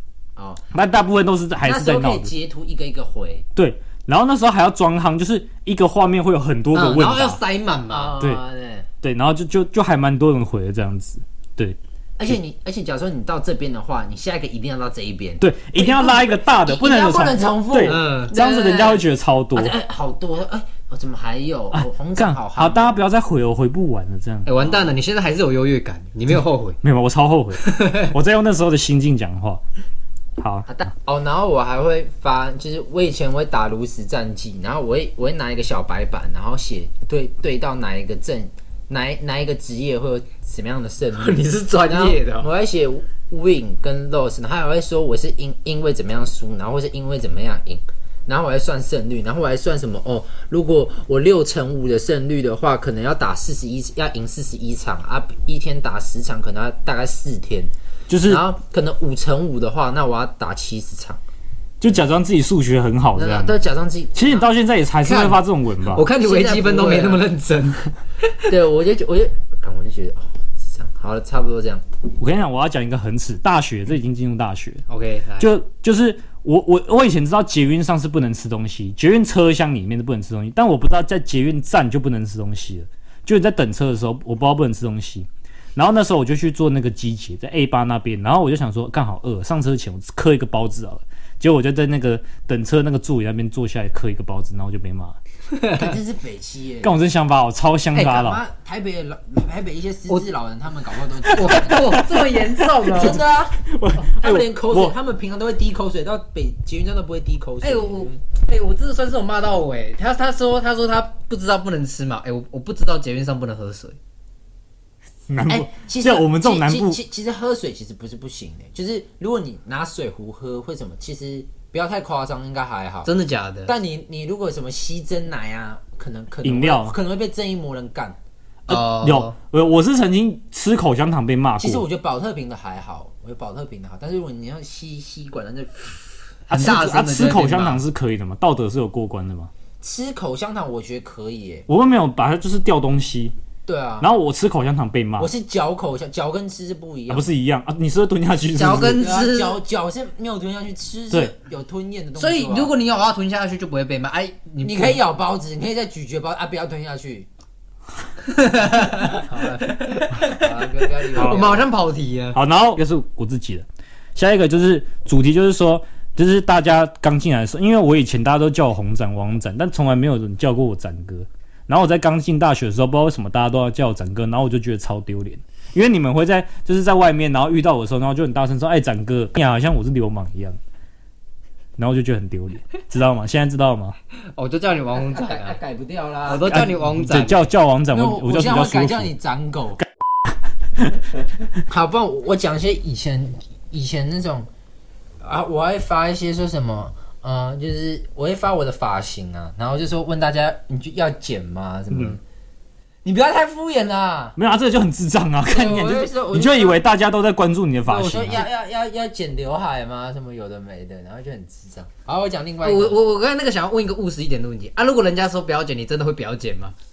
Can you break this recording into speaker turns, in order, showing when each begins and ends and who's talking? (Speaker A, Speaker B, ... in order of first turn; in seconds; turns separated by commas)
Speaker A: 0.4-0.6, Speaker B: 0.7-2.3, Speaker A: 1.6-3.5, Speaker B: 3.5-7.4, Speaker C: 6.7-8.1, Speaker A: 7.9-8.9, Speaker B: 9.0-12.4, Speaker A: 12.2-19.0, Speaker B: 15.4-19.8, Speaker C: 17.8-18.3, Speaker A: 19.5-23.0, Speaker B: 21.7-24.5, Speaker C: 24.4-26.8, Speaker A: 24.6-24.9, Speaker B: 26.8-29.6, Speaker C: 27.6-28.1, Speaker B: 30.4-30.7, Speaker A: 30.7-57.7, Speaker C: 41.1-42.5, Speaker B: 58.1-58.4, Speaker A: 58.2-61.2, Speaker B: 61.8-63.6, Speaker A: 63.1-64.5, Speaker B: 64.1-66.1, Speaker C: 65.0-67.9, Speaker A: 66.2-67.2, Speaker A: 68.4-71.8, Speaker B: 72.2-74.8, Speaker C: 74.9-75.5, Speaker B: 75.4-95.2, Speaker C: 95.5-95.9, Speaker A: 95.7-97.0, Speaker B: 96.8-98.4, Speaker A: 98.0-102.1, Speaker B: 101.2-104.9, Speaker C: 101.3-103.2, Speaker A: 102.9-103.6, Speaker A: 104.1-108.2, Speaker C: 107.6-114.0, Speaker B: 115.3-117.0, Speaker A: 115.4-123.1, Speaker C: 123.0-123.7, Speaker A: 123.7-128.2, Speaker B: 126.4-127.0, Speaker B: 128.7-131.8, Speaker C: 128.7-129.3, Speaker A: 131.6-136.0, Speaker B: 136.5-139.5, Speaker C: 136.5-137.8, Speaker A: 139.8-141.7, Speaker B: 141.7-143.3, Speaker A: 143.7-144.1, Speaker B: 144.0-145.3, Speaker A: 145.2-147.3, Speaker B: 147.1-149.1, Speaker C: 148.5-149.6, Speaker A: 148.6-152.7, Speaker C: 152.2-155.0, Speaker A: 154.6-157.3, Speaker C: 158.3-162.4, Speaker A: 158.9-161.7, Speaker B: 161.2-161.5, Speaker B: 162.3-180.6, Speaker B: 181.8-183.9, Speaker C: 184.3-185.6, Speaker A: 185.0-186.6, Speaker C: 186.2-187.4, Speaker B: 186.5-189.1, Speaker A: 187.9-189.8, Speaker A: 191.7-194.5, Speaker A: 195.2-202.2, Speaker B: 201.9-202.2, Speaker A: 203.0-204.4, Speaker B: 204.4-208.4, Speaker A: 205.5-206.8, Speaker A: 207.8-213.0, Speaker C: 212.6-216.7